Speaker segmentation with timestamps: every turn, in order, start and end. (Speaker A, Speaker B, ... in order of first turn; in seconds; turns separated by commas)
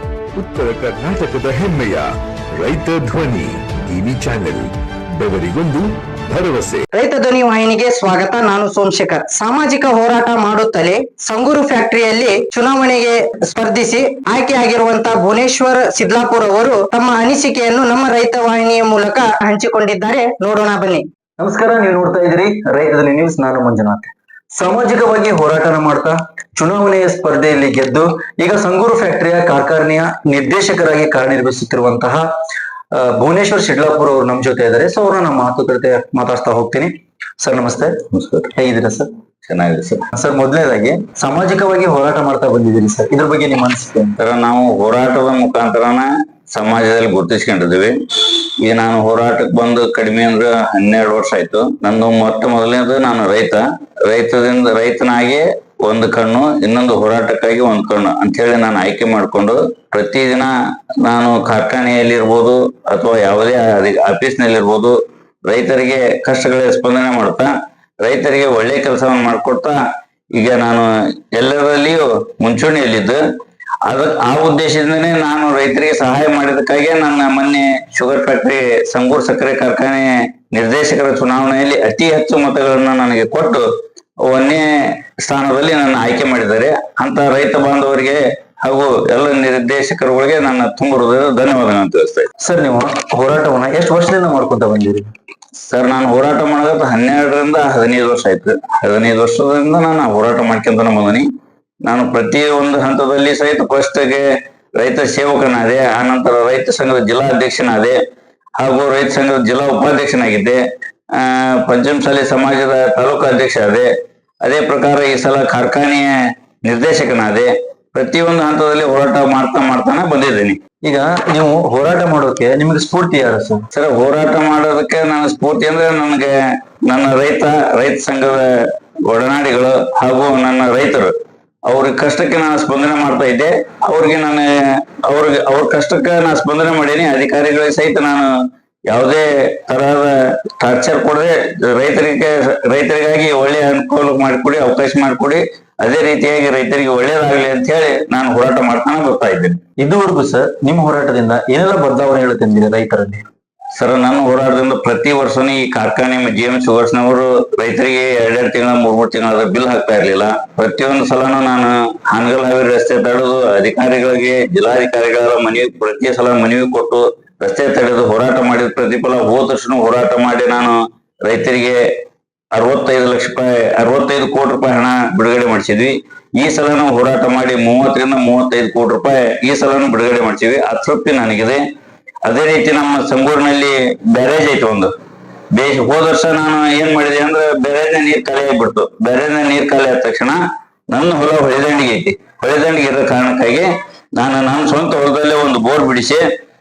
Speaker A: 0.3-6.8, Speaker B: 6.9-21.1, Speaker C: 21.4-32.2, Speaker C: 32.9-39.1, Speaker D: 39.5-40.0, Speaker C: 40.1-44.2, Speaker D: 44.2-47.9, Speaker D: 48.6-60.5, Speaker D: 61.0-64.9, Speaker D: 65.5-67.5, Speaker D: 68.0-69.8, Speaker D: 70.3-73.2, Speaker D: 73.9-83.7, Speaker D: 84.3-92.3, Speaker C: 92.4-95.1, Speaker D: 95.6-101.2, Speaker D: 101.9-104.2, Speaker D: 104.8-108.0, Speaker D: 108.6-110.6, Speaker D: 111.2-113.9, Speaker D: 114.4-116.1, Speaker D: 116.7-120.6, Speaker C: 120.8-123.7, Speaker D: 123.7-126.3, Speaker D: 126.9-128.5, Speaker D: 129.1-131.1, Speaker D: 131.7-134.5, Speaker D: 135.1-138.3, Speaker D: 138.9-149.6, Speaker C: 149.8-153.2, Speaker D: 153.8-171.8, Speaker D: 172.5-181.6, Speaker D: 182.2-184.9, Speaker D: 185.5-190.4, Speaker D: 190.9-193.7, Speaker D: 194.2-196.2